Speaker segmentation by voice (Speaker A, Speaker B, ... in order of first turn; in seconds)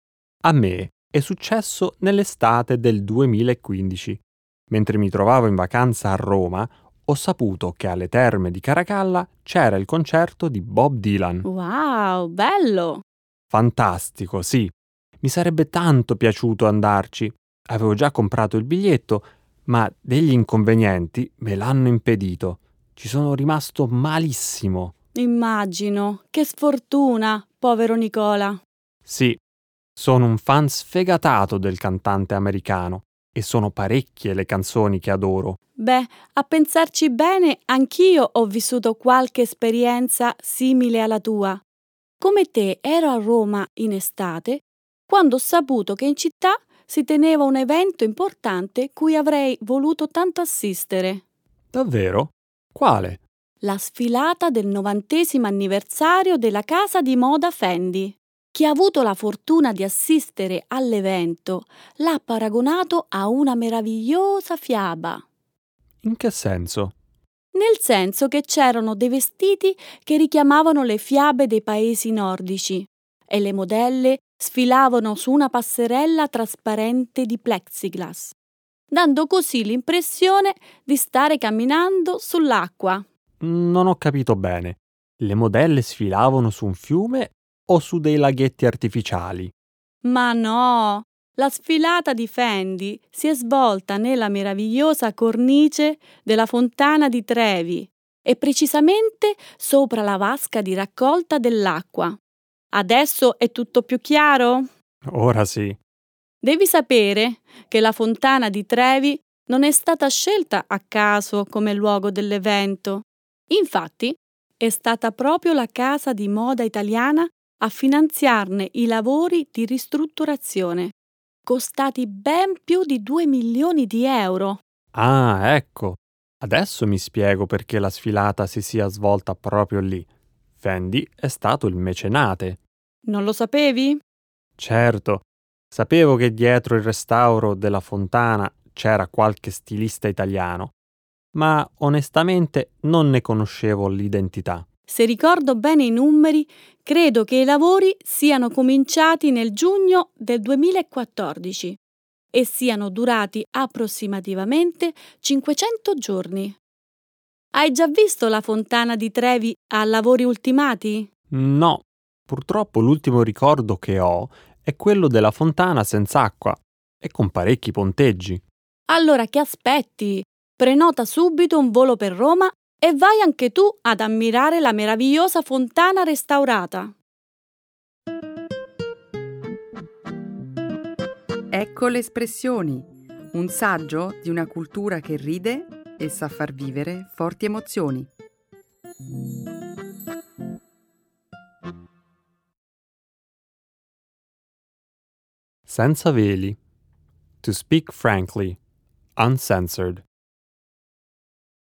Speaker A: 0.4-11.5, 13.5-24.9, 29.1-29.4, 30.0-35.6, 51.7-53.2, 66.0-66.9, 83.4-89.5, 105.1-105.8, 124.9-130.1, 130.6-132.6, 134.6-140.7, 141.3-144.7, 161.3-168.4, 195.7-196.6, 197.4-198.6, 199.2-200.0
Speaker B: 11.4-13.0, 25.1-28.6, 35.8-41.6, 42.2-51.2, 53.6-65.2, 67.5-78.4, 78.9-83.0, 90.0-102.2, 102.7-104.7, 106.4-120.9, 121.5-124.6, 133.1-134.0, 144.9-151.8, 152.3-156.6, 157.5-161.1, 168.9-176.9
Speaker C: 181.5-188.1